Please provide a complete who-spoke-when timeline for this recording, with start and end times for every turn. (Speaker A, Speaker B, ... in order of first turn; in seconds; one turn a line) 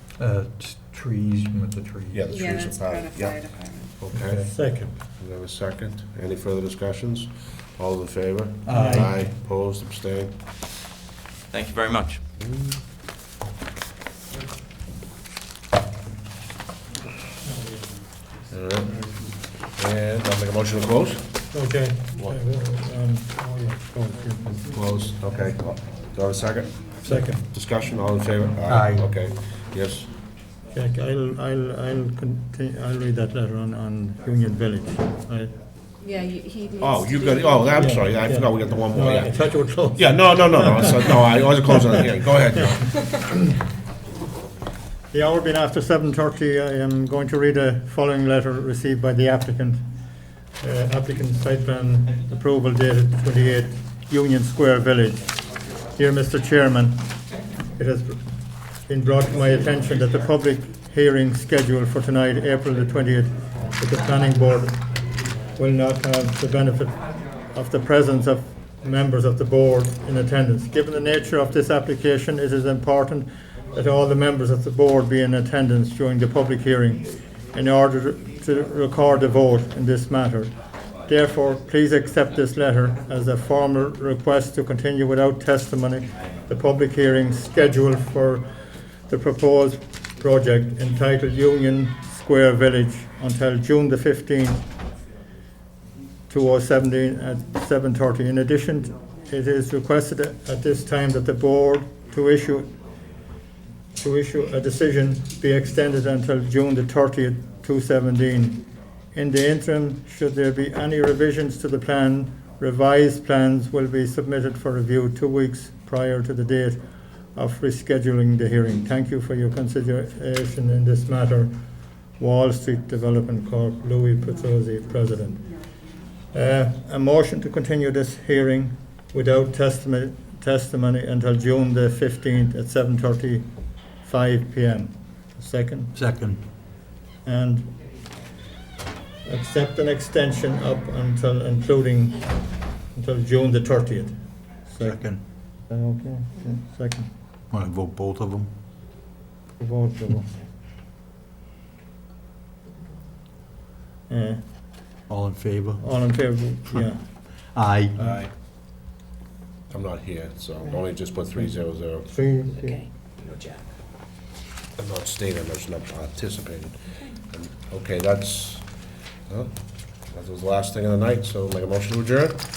Speaker A: 0.2-2.2
Speaker B: 2.1-10.4
Speaker C: 2.3-3.9
Speaker A: 4.1-4.5
Speaker D: 4.5-4.9
Speaker A: 8.6-9.2
Speaker D: 8.7-9.1
Speaker B: 12.4-12.8
Speaker B: 18.5-19.1
Speaker B: 19.7-21.3
Speaker D: 21.5-24.6
Speaker B: 24.7-26.8
Speaker D: 27.0-27.4
Speaker B: 27.4-30.1
Speaker A: 28.7-29.0
Speaker D: 30.7-35.5
Speaker C: 36.0-37.9
Speaker B: 36.8-43.0
Speaker D: 37.7-41.2
Speaker D: 45.1-49.8
Speaker D: 50.6-55.3
Speaker D: 55.9-57.1
Speaker D: 57.7-58.3
Speaker D: 58.8-64.9
Speaker D: 65.5-88.5
Speaker D: 89.1-94.7
Speaker D: 96.3-102.7
Speaker D: 103.9-116.8
Speaker D: 117.3-121.6
Speaker D: 122.1-125.5
Speaker C: 124.3-124.8
Speaker C: 125.3-126.0
Speaker D: 126.3-133.5
Speaker D: 134.0-135.9
Speaker A: 135.9-136.4
Speaker D: 137.2-137.7
Speaker D: 139.2-142.3
Speaker D: 142.9-145.0
Speaker A: 144.8-145.2
Speaker D: 145.7-147.1
Speaker A: 147.5-148.5
Speaker D: 149.6-150.3
Speaker D: 154.1-154.4
Speaker A: 155.1-156.1
Speaker D: 155.8-157.1
Speaker A: 156.7-158.0
Speaker B: 158.0-158.3
Speaker B: 159.7-162.1
Speaker D: 162.1-162.8
Speaker C: 162.6-163.6
Speaker B: 164.8-172.4